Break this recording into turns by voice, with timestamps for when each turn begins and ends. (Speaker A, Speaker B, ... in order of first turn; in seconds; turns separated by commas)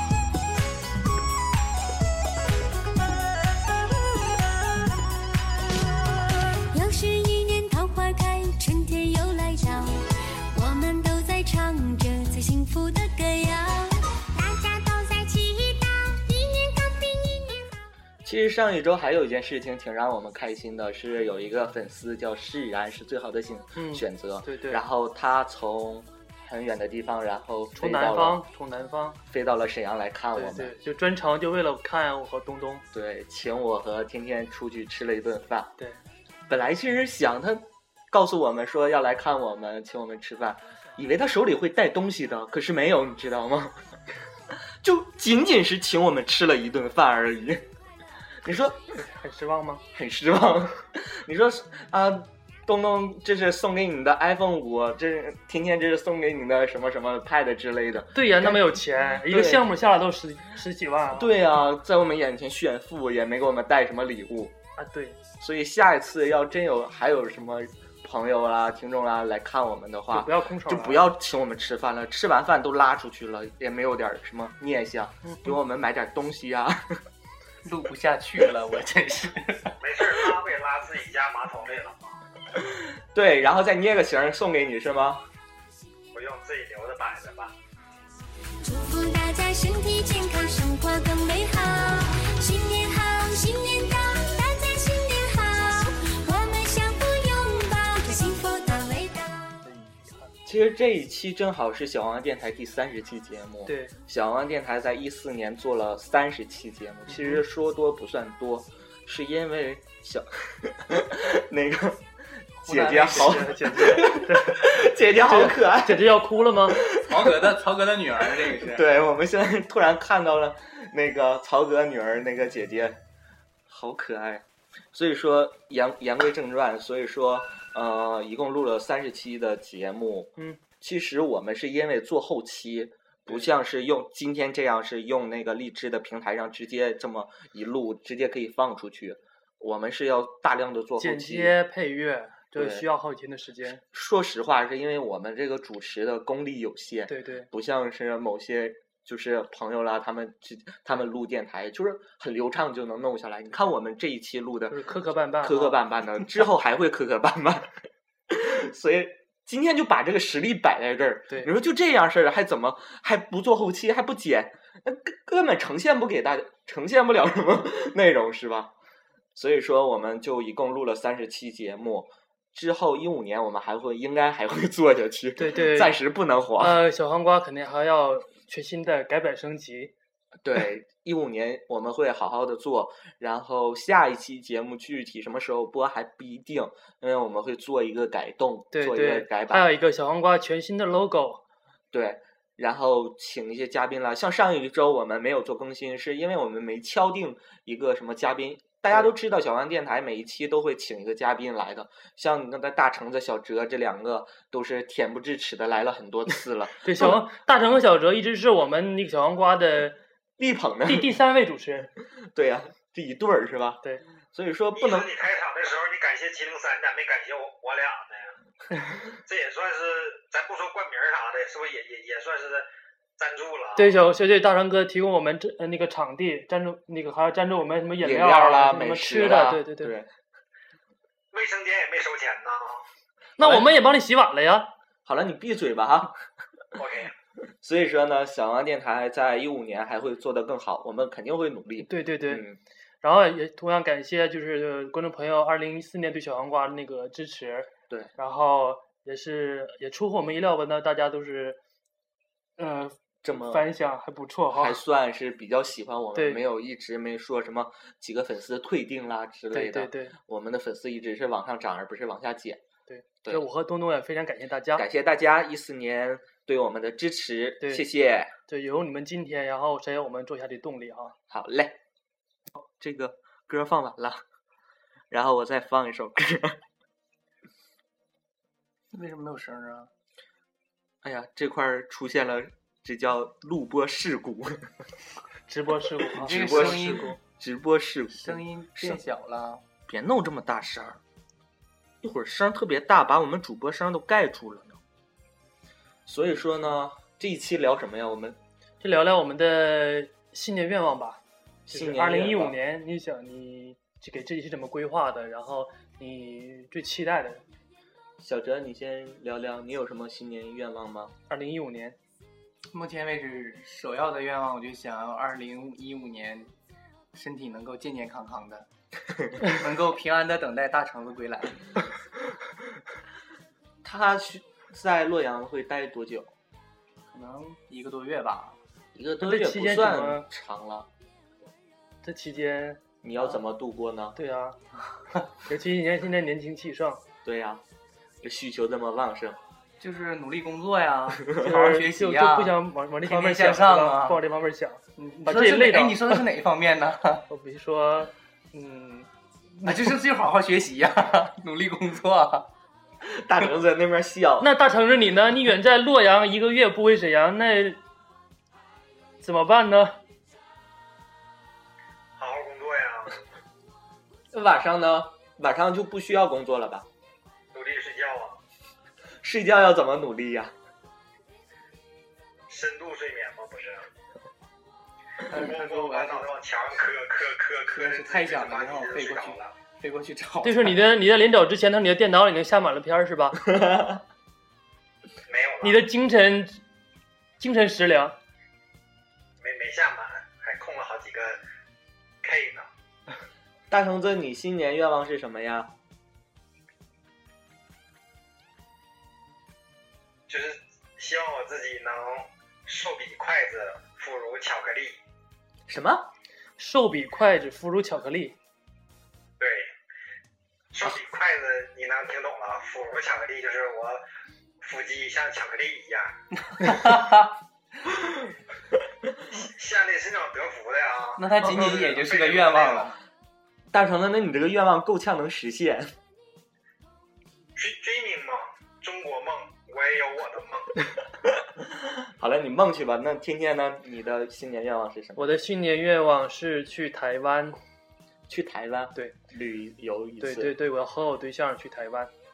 Speaker A: 6.7-17.8, Speaker B: 18.2-28.4, Speaker C: 23.8-24.8, Speaker C: 27.8-29.2, Speaker B: 29.3-30.7, Speaker C: 30.4-32.8, Speaker B: 32.9-35.7, Speaker B: 36.5-43.8, Speaker B: 44.8-47.6, Speaker B: 48.4-48.8, Speaker C: 49.0-49.8, Speaker B: 49.9-59.7, Speaker C: 58.1-61.3, Speaker B: 61.1-64.5, Speaker C: 64.8-65.2, Speaker B: 65.4-77.0, Speaker C: 70.1-71.1, Speaker D: 77.7-79.8, Speaker E: 79.8-82.1, Speaker B: 82.6-85.2, Speaker E: 86.1-87.5, Speaker A: 88.6-99.5, Speaker C: 99.6-100.3, Speaker B: 100.5-116.2, Speaker C: 103.7-103.9, Speaker C: 107.1-107.4, Speaker D: 112.7-114.2, Speaker C: 113.0-116.8, Speaker B: 116.7-117.5, Speaker D: 116.9-118.8, Speaker B: 118.6-123.0, Speaker B: 123.7-141.6, Speaker C: 141.0-143.8, Speaker B: 142.6-142.8, Speaker B: 143.8-157.7, Speaker C: 147.1-147.5, Speaker C: 154.7-155.8, Speaker B: 158.3-168.7, Speaker B: 169.3-176.8, Speaker C: 175.4-176.0, Speaker C: 176.6-179.9, Speaker B: 180.4-189.7, Speaker C: 188.7-191.4, Speaker B: 191.9-207.2, Speaker C: 206.8-210.0, Speaker B: 210.4-211.1, Speaker C: 210.8-211.9, Speaker B: 212.3-213.8, Speaker B: 214.3-215.1, Speaker E: 214.8-218.3, Speaker E: 219.2-222.7, Speaker E: 223.2-223.9, Speaker C: 223.8-229.9, Speaker B: 228.0-230.1, Speaker E: 231.3-232.8, Speaker C: 233.4-234.7, Speaker B: 233.4-233.7, Speaker B: 235.1-236.2, Speaker E: 236.8-237.1, Speaker B: 237.6-242.6, Speaker C: 241.8-242.4, Speaker C: 243.0-251.6, Speaker C: 252.6-254.8, Speaker B: 253.2-253.7, Speaker B: 254.5-262.6, Speaker C: 256.1-256.4, Speaker C: 259.5-260.1, Speaker C: 262.9-264.8, Speaker B: 264.8-268.3, Speaker C: 267.6-267.9, Speaker C: 268.5-271.2, Speaker B: 271.3-271.8, Speaker B: 272.8-274.2, Speaker B: 275.1-276.6, Speaker D: 278.9-279.9, Speaker B: 281.0-284.7, Speaker C: 285.5-287.2, Speaker B: 286.1-289.0, Speaker D: 286.2-287.2, Speaker D: 288.2-289.6, Speaker B: 289.9-291.0, Speaker B: 292.0-294.8, Speaker B: 296.1-298.4, Speaker C: 298.8-307.4, Speaker B: 301.7-302.6, Speaker B: 308.2-311.1, Speaker C: 311.3-312.0, Speaker D: 312.7-316.5, Speaker D: 317.1-318.7, Speaker D: 319.4-321.7, Speaker B: 323.8-326.3, Speaker D: 327.1-328.6, Speaker B: 328.9-330.9, Speaker C: 329.2-330.3, Speaker C: 332.0-332.8, Speaker B: 333.0-334.2, Speaker C: 334.2-334.6, Speaker C: 335.4-337.0, Speaker B: 337.2-337.6, Speaker B: 338.2-339.4, Speaker D: 339.8-344.2, Speaker C: 341.3-346.2, Speaker D: 345.0-347.2, Speaker C: 347.3-349.1, Speaker D: 349.6-352.5, Speaker B: 353.0-354.5, Speaker C: 354.4-357.8, Speaker C: 359.2-360.0, Speaker E: 362.2-363.2, Speaker B: 364.3-366.9, Speaker E: 367.5-368.4, Speaker B: 369.2-370.5, Speaker E: 372.5-373.9, Speaker D: 375.3-376.3, Speaker E: 375.3-379.6, Speaker D: 377.7-380.8, Speaker C: 380.4-383.4, Speaker B: 383.5-384.0, Speaker E: 385.3-385.8, Speaker C: 385.6-386.6, Speaker C: 387.4-388.2, Speaker E: 389.4-391.4, Speaker E: 392.2-392.7, Speaker B: 393.7-395.7, Speaker E: 400.3-405.0, Speaker B: 405.7-406.1, Speaker C: 406.6-408.4, Speaker E: 409.4-409.7, Speaker E: 410.7-414.0, Speaker E: 414.6-416.1, Speaker D: 416.5-417.4, Speaker E: 419.3-422.9, Speaker D: 421.2-423.0, Speaker B: 423.7-425.9, Speaker E: 427.6-430.7, Speaker B: 431.5-435.3, Speaker C: 435.2-437.6, Speaker B: 438.3-440.6, Speaker C: 440.2-442.1